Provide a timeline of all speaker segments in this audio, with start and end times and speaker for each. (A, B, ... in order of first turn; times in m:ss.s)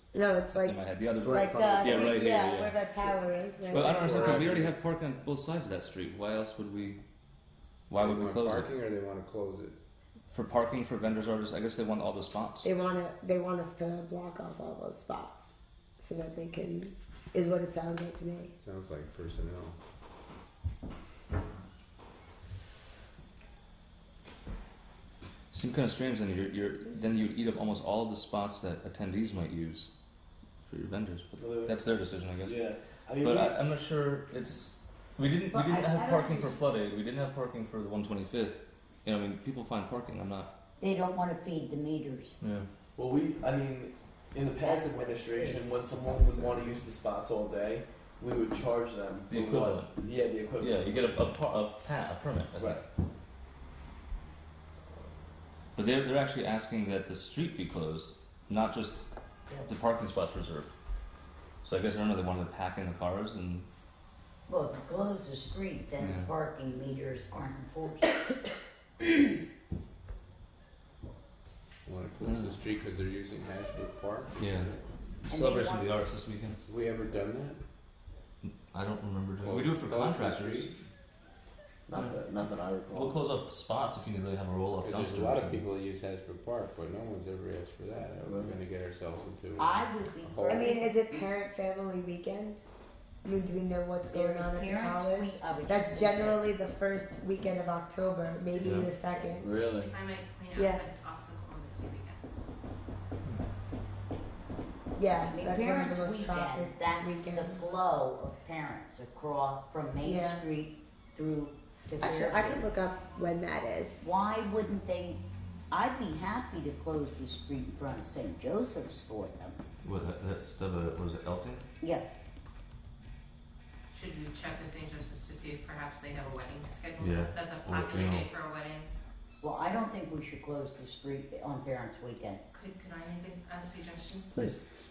0:00.1-0:04.5 A
0:00.5-0:02.8 B
0:01.2-0:02.1 C
0:03.7-0:04.8 C
0:03.7-0:07.0 B
0:07.9-0:08.7 B
0:07.9-0:09.8 C
0:10.3-0:12.7 B
0:12.6-0:18.5 A
0:18.6-0:19.8 C
0:25.5-0:29.9 B
0:30.6-0:32.6 B
0:31.4-0:31.8 D
0:32.4-0:33.5 D
0:33.2-0:40.5 B
0:35.5-0:36.6 A
0:40.8-0:42.4 E
0:42.4-0:42.7 B
0:43.0-0:51.0 D
0:44.6-0:45.8 E
0:49.3-0:49.9 B
0:50.6-0:52.8 B
0:52.6-0:52.8 D
0:55.7-0:59.0 B
0:59.7-1:00.7 B
1:01.6-1:03.7 B
1:04.5-1:08.2 E
1:06.0-1:06.3 B
1:11.8-1:14.8 C
1:12.2-1:12.6 B
1:14.4-1:16.6 B
1:15.3-1:15.9 E
1:16.6-1:17.6 C
1:18.4-1:20.7 B
1:19.4-1:20.8 C
1:21.9-1:23.2 D
1:22.9-1:25.6 B
1:24.8-1:30.7 C
1:28.2-1:28.6 D
1:29.6-1:31.2 E
1:30.5-1:32.6 A
1:33.2-1:39.5 A
1:34.1-1:36.5 E
1:38.6-1:38.9 B
1:39.4-1:39.9 D
1:39.7-1:42.2 F
1:40.5-1:40.8 A
1:45.0-1:47.7 A
1:45.2-1:52.7 E
1:50.0-1:50.4 A
1:52.0-1:54.0 A
1:54.0-1:59.6 E
1:59.8-2:01.6 B
2:01.8-2:02.1 E
2:03.9-2:08.9 F
2:07.0-2:08.3 B
2:09.4-2:12.4 E
2:12.5-2:14.3 F
2:14.3-2:14.6 D